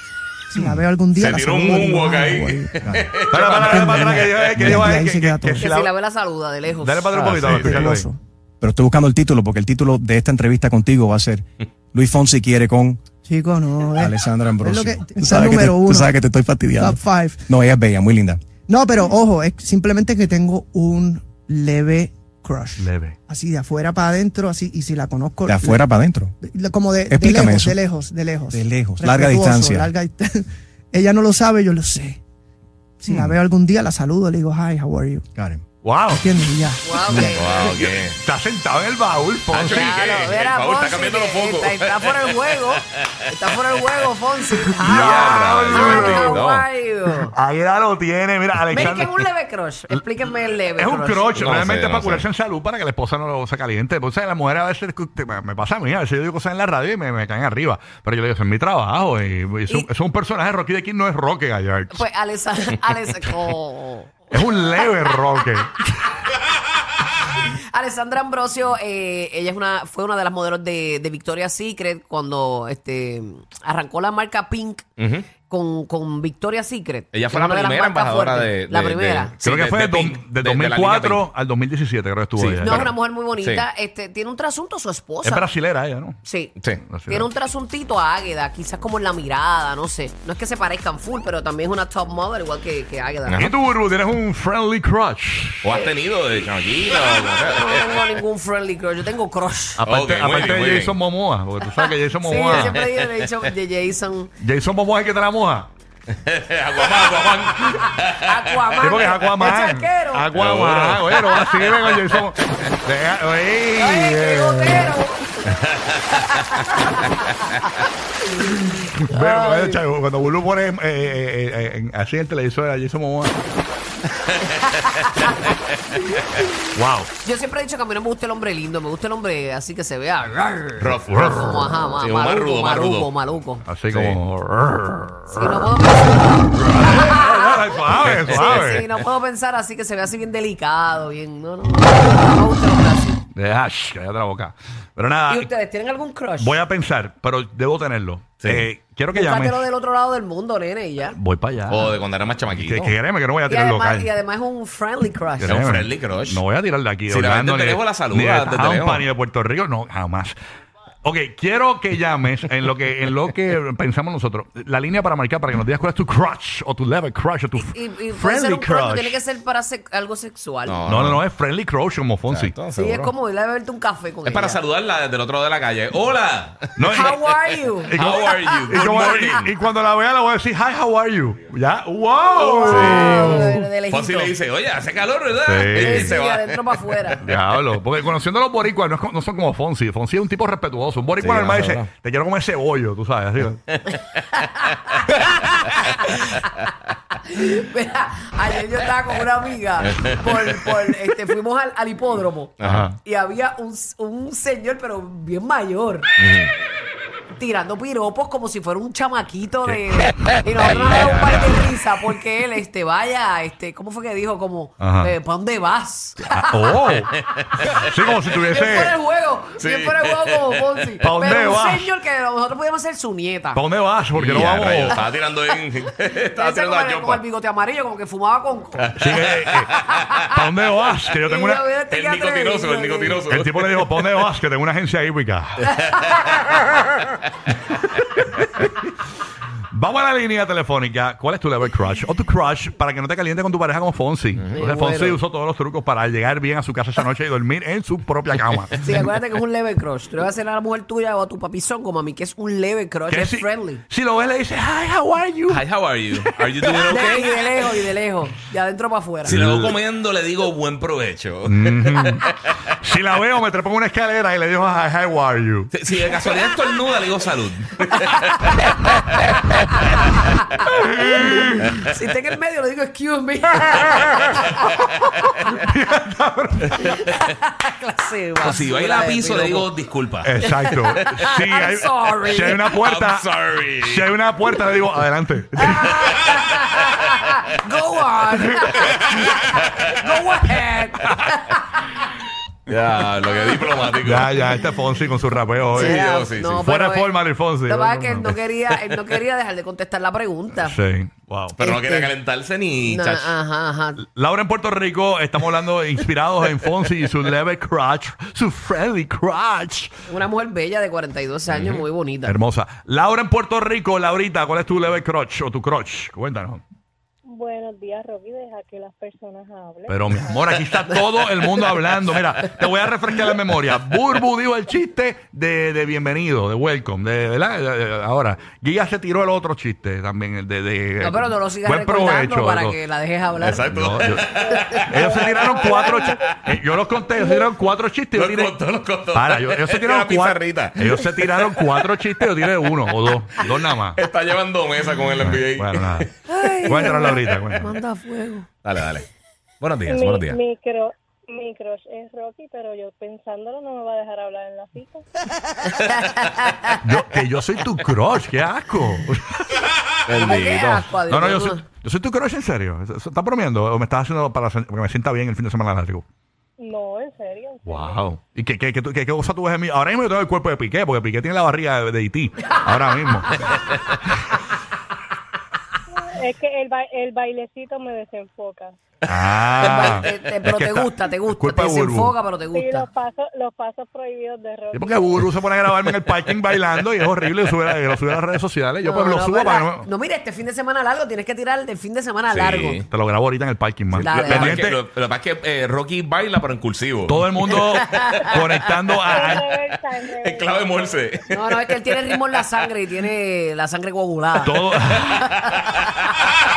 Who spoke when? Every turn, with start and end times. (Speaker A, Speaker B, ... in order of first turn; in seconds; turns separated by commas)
Speaker A: 0.5-5.7, Speaker B: 0.6-0.9, Speaker C: 1.1-4.2, Speaker D: 3.3-5.9, Speaker B: 4.6-4.9, Speaker E: 5.6-7.2, Speaker D: 6.8-8.1, Speaker A: 7.2-8.2, Speaker B: 7.3-8.0, Speaker B: 8.6-13.0, Speaker A: 13.2-16.1, Speaker B: 13.9-18.4, Speaker A: 16.8-17.4, Speaker A: 18.7-25.9, Speaker D: 22.8-23.1, Speaker B: 25.4-26.3, Speaker A: 26.4-32.2, Speaker B: 27.1-27.8, Speaker B: 28.5-29.9, Speaker A: 33.0-35.2, Speaker B: 33.1-33.4, Speaker B: 35.3-35.6, Speaker D: 35.8-36.2, Speaker A: 36.1-37.5, Speaker E: 36.8-37.7, Speaker C: 37.3-38.2, Speaker D: 38.2-40.0, Speaker C: 39.5-43.3, Speaker E: 39.6-47.3, Speaker C: 44.9-46.6, Speaker D: 44.9-46.4, Speaker D: 47.3-49.2, Speaker E: 48.7-51.3, Speaker D: 50.8-62.0, Speaker C: 51.4-52.2, Speaker E: 61.9-64.1, Speaker D: 64.3-65.8, Speaker E: 67.5-74.8, Speaker C: 75.0-75.3, Speaker E: 75.4-79.3, Speaker C: 77.1-81.3, Speaker D: 79.4-82.9, Speaker C: 82.4-83.7, Speaker E: 82.6-85.5, Speaker D: 85.2-86.2, Speaker E: 86.2-86.5, Speaker C: 86.5-86.8, Speaker D: 86.8-87.3, Speaker E: 87.1-93.4, Speaker C: 93.3-93.6, Speaker D: 93.4-95.6, Speaker C: 95.6-98.1, Speaker E: 96.9-99.8, Speaker D: 99.8-102.8, Speaker C: 99.8-101.0, Speaker E: 101.7-104.3, Speaker C: 102.5-103.3, Speaker D: 104.4-105.7, Speaker C: 106.1-108.3, Speaker E: 108.0-110.3, Speaker D: 108.8-112.3, Speaker C: 110.3-112.6, Speaker D: 112.8-114.9, Speaker E: 113.8-115.5, Speaker C: 115.6-116.6, Speaker E: 116.2-117.6, Speaker D: 118.9-123.3, Speaker E: 119.1-119.8, Speaker E: 125.0-125.3, Speaker D: 126.7-127.1, Speaker E: 127.2-133.6, Speaker C: 130.8-133.1, Speaker D: 131.1-131.3, Speaker D: 133.7-135.4, Speaker C: 133.9-134.2, Speaker E: 135.3-143.2, Speaker D: 136.6-138.8, Speaker C: 138.1-138.8, Speaker D: 143.3-145.4, Speaker E: 145.3-146.6, Speaker D: 146.4-149.6, Speaker C: 148.4-148.7, Speaker E: 149.1-151.2, Speaker D: 151.1-151.8, Speaker C: 151.7-153.0, Speaker D: 152.5-154.1, Speaker E: 153.5-155.5, Speaker D: 155.4-160.3, Speaker C: 155.4-156.4, Speaker C: 157.1-159.1, Speaker D: 161.0-169.2, Speaker E: 167.6-170.8, Speaker C: 170.7-171.2, Speaker D: 170.8-172.5, Speaker C: 172.3-173.1, Speaker E: 172.8-174.6, Speaker C: 174.2-177.3, Speaker D: 176.8-177.1, Speaker E: 176.9-179.4, Speaker C: 177.9-179.5, Speaker D: 177.9-183.7, Speaker E: 182.4-184.3, Speaker C: 182.6-187.4, Speaker D: 185.4-186.2, Speaker E: 185.8-187.2, Speaker D: 187.2-193.6, Speaker C: 191.2-191.9, Speaker E: 194.4-196.5, Speaker E: 197.2-206.1, Speaker C: 199.8-200.7, Speaker C: 202.6-202.9, Speaker D: 202.6-202.9, Speaker C: 206.2-206.5, Speaker E: 207.4-216.9, Speaker C: 210.5-211.6, Speaker D: 214.8-215.1, Speaker D: 216.3-217.1, Speaker D: 217.8-218.9, Speaker E: 218.3-223.6, Speaker C: 219.6-220.8, Speaker D: 221.0-221.9, Speaker D: 223.5-225.0, Speaker C: 224.1-227.2, Speaker E: 224.9-225.6, Speaker E: 226.3-228.9, Speaker C: 228.8-230.2, Speaker D: 229.0-229.7, Speaker E: 229.9-230.3, Speaker D: 230.3-231.6, Speaker E: 231.2-233.2, Speaker C: 231.9-234.0, Speaker D: 233.3-235.5, Speaker E: 235.7-236.3, Speaker D: 239.7-248.8, Speaker E: 244.5-245.2, Speaker E: 248.8-253.8, Speaker D: 253.1-255.6, Speaker C: 255.5-257.7, Speaker E: 256.8-259.4, Speaker C: 259.2-262.5, Speaker D: 259.3-259.7, Speaker D: 261.5-262.2, Speaker D: 262.8-265.7, Speaker C: 265.7-268.6, Speaker E: 266.3-266.6, Speaker D: 270.9-271.6, Speaker E: 271.0-275.5, Speaker D: 275.6-276.6, Speaker E: 276.8-279.7, Speaker C: 278.4-281.3, Speaker D: 280.2-283.2, Speaker E: 280.4-282.7, Speaker C: 282.7-284.2, Speaker D: 283.8-285.8, Speaker E: 285.6-291.8, Speaker C: 285.9-286.6, Speaker C: 288.7-290.1, Speaker C: 292.7-294.5, Speaker D: 294.0-295.9, Speaker C: 295.7-296.7, Speaker E: 295.7-300.8, Speaker D: 296.6-298.3, Speaker D: 300.6-301.5, Speaker C: 301.6-303.4, Speaker E: 301.6-302.1, Speaker E: 302.9-304.0, Speaker D: 304.0-309.9, Speaker E: 310.1-312.4, Speaker C: 311.5-311.8, Speaker D: 312.2-316.6, Speaker F: 317.3-320.4, Speaker D: 319.9-332.8, Speaker E: 331.0-333.7, Speaker C: 333.3-336.4, Speaker D: 333.7-334.2, Speaker F: 334.4-336.2, Speaker E: 334.5-334.9, Speaker D: 334.9-338.5, Speaker F: 337.1-337.5, Speaker C: 338.1-341.6, Speaker D: 339.1-343.9, Speaker C: 342.9-346.1, Speaker D: 345.2-346.1, Speaker E: 346.3-348.5, Speaker D: 346.6-347.6, Speaker C: 348.6-349.1, Speaker C: 349.6-350.4, Speaker F: 349.9-355.0, Speaker E: 355.7-356.7, Speaker D: 356.8-359.4, Speaker C: 360.1-360.9, Speaker E: 360.1-361.6, Speaker D: 361.1-366.0, Speaker F: 366.6-368.0, Speaker D: 367.7-373.6, Speaker F: 376.0-378.7, Speaker D: 379.1-382.1, Speaker E: 379.6-382.9, Speaker F: 382.5-385.3, Speaker D: 384.7-389.9, Speaker E: 388.8-392.8, Speaker C: 392.3-392.9, Speaker D: 392.9-394.8, Speaker C: 393.9-398.3, Speaker E: 394.0-394.6, Speaker D: 397.1-399.4, Speaker E: 397.8-398.2, Speaker F: 399.1-401.1, Speaker C: 400.1-402.4, Speaker E: 401.3-405.5, Speaker D: 404.4-405.1